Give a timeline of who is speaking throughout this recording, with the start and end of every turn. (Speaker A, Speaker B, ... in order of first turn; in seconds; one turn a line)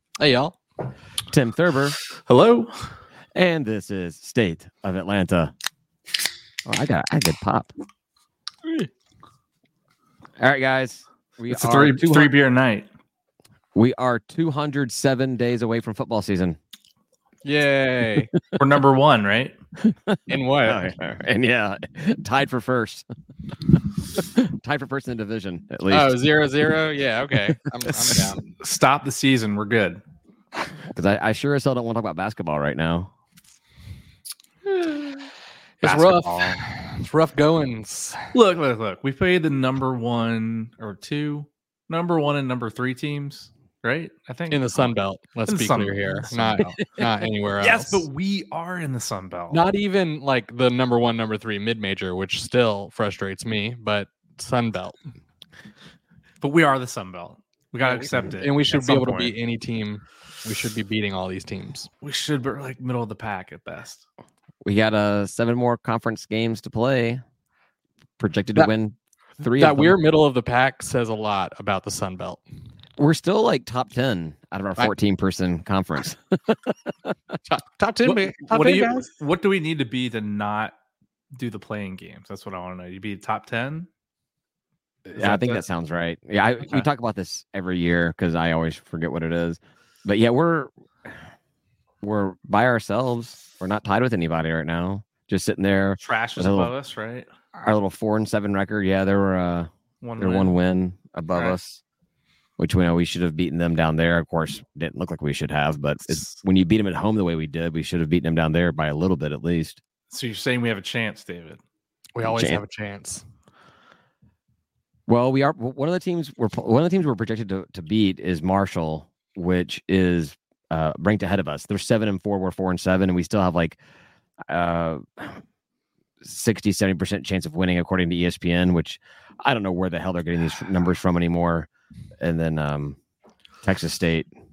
Speaker A: 0.2-0.6
Speaker B: 1.3-2.0
Speaker C: 2.1-2.9
Speaker B: 3.3-5.5
Speaker B: 6.7-7.7
Speaker B: 10.4-12.3
Speaker C: 11.5-12.9
Speaker B: 13.7-16.6
Speaker A: 17.4-18.3
Speaker C: 18.5-19.6
Speaker B: 19.8-23.1
Speaker A: 20.3-20.9
Speaker B: 23.7-26.2
Speaker A: 25.9-28.5
Speaker B: 27.9-28.2
Speaker C: 28.5-30.0
Speaker B: 30.9-33.1
Speaker C: 34.7-35.2
Speaker A: 35.8-38.3
Speaker C: 35.8-36.6
Speaker C: 38.3-44.9
Speaker A: 44.5-48.1
Speaker C: 45.5-46.8
Speaker B: 46.6-47.0
Speaker C: 47.6-49.6
Speaker A: 49.5-55.0
Speaker C: 56.4-59.4
Speaker A: 57.8-61.9
Speaker C: 62.0-64.0
Speaker B: 64.6-67.2
Speaker B: 68.2-70.0
Speaker A: 69.5-72.4
Speaker B: 73.0-76.7
Speaker A: 77.5-79.0
Speaker C: 78.0-80.7
Speaker C: 81.3-83.9
Speaker B: 85.1-90.7
Speaker C: 85.2-85.6
Speaker B: 92.0-96.7
Speaker C: 96.0-97.3
Speaker B: 97.6-101.8
Speaker C: 100.0-100.6
Speaker C: 101.3-101.6
Speaker B: 102.6-109.8
Speaker C: 106.1-106.4
Speaker C: 110.1-111.6
Speaker A: 112.1-113.2
Speaker B: 112.2-112.6
Speaker B: 115.1-123.8
Speaker B: 124.5-125.4
Speaker B: 126.2-131.7
Speaker B: 132.2-133.0
Speaker B: 133.6-134.3